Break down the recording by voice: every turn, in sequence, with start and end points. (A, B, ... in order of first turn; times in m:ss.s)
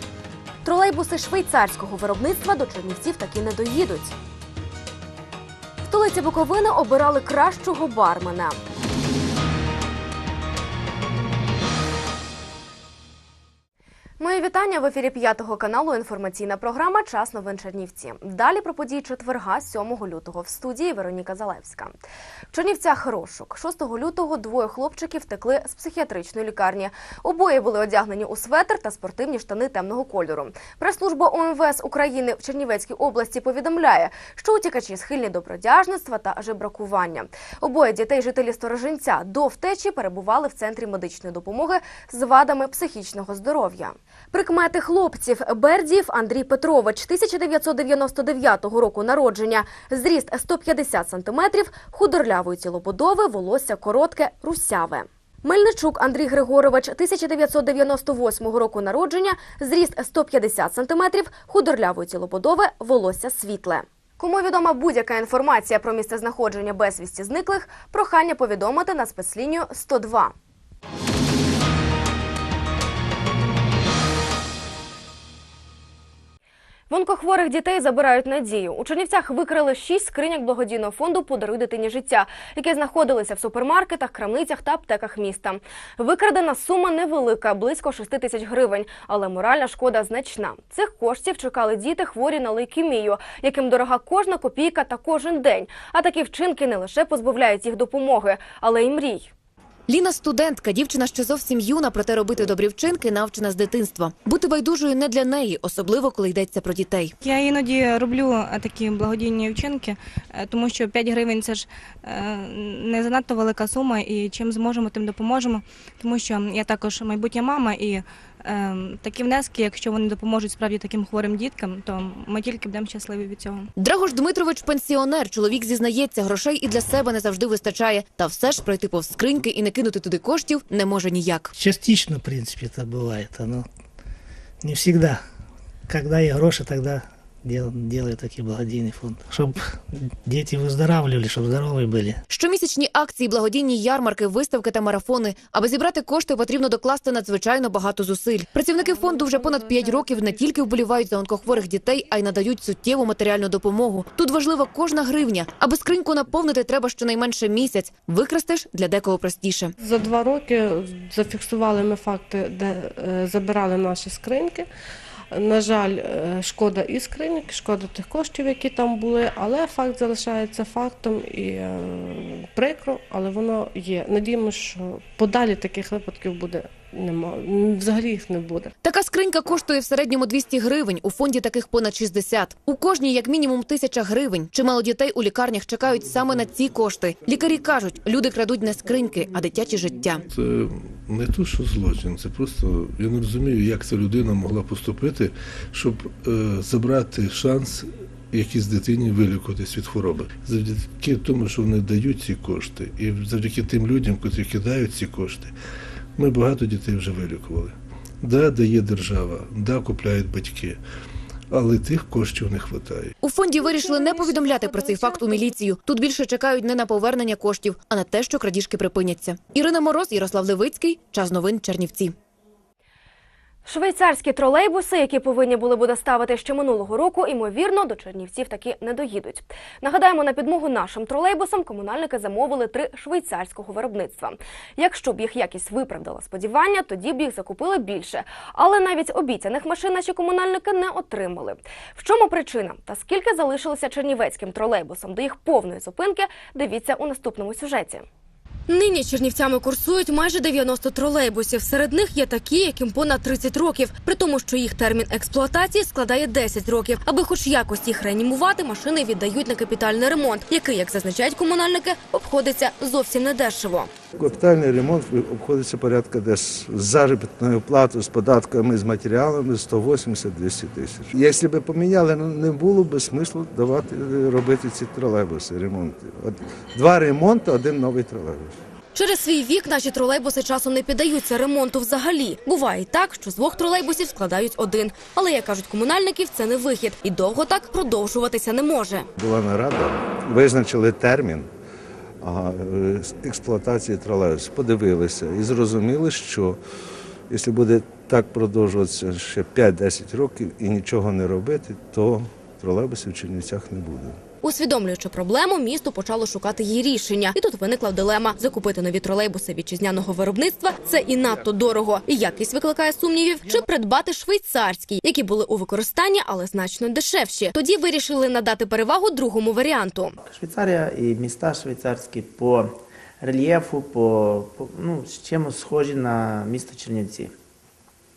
0:00.6-0:04.2 A
0:05.8-0:08.6 A
0:14.2-1:10.3 A
1:16.9-1:39.3 A
1:39.9-1:47.1 B
1:47.2-2:03.7 C
2:03.8-2:11.5 B
2:11.6-2:13.6 D
2:14.6-2:15.2 D
2:15.9-2:19.5 D
2:20.2-2:22.1 D
2:22.3-2:39.7 B
2:28.8-2:30.3 E
2:39.8-2:44.7 E
2:45.3-2:58.7 E
2:58.8-3:10.2 B
3:10.4-3:25.5 F
3:26.2-3:30.8 F
3:31.5-3:33.1 F
3:33.2-3:42.1 B
3:43.6-4:08.1 A
4:08.7-4:23.9 A
4:24.2-4:38.6 G
4:39.0-4:49.1 A
4:49.2-4:51.5 G
4:52.2-4:56.6 G
4:57.3-5:04.2 G
5:04.4-5:20.2 A
5:20.2-5:22.7 H
5:23.2-5:27.3 H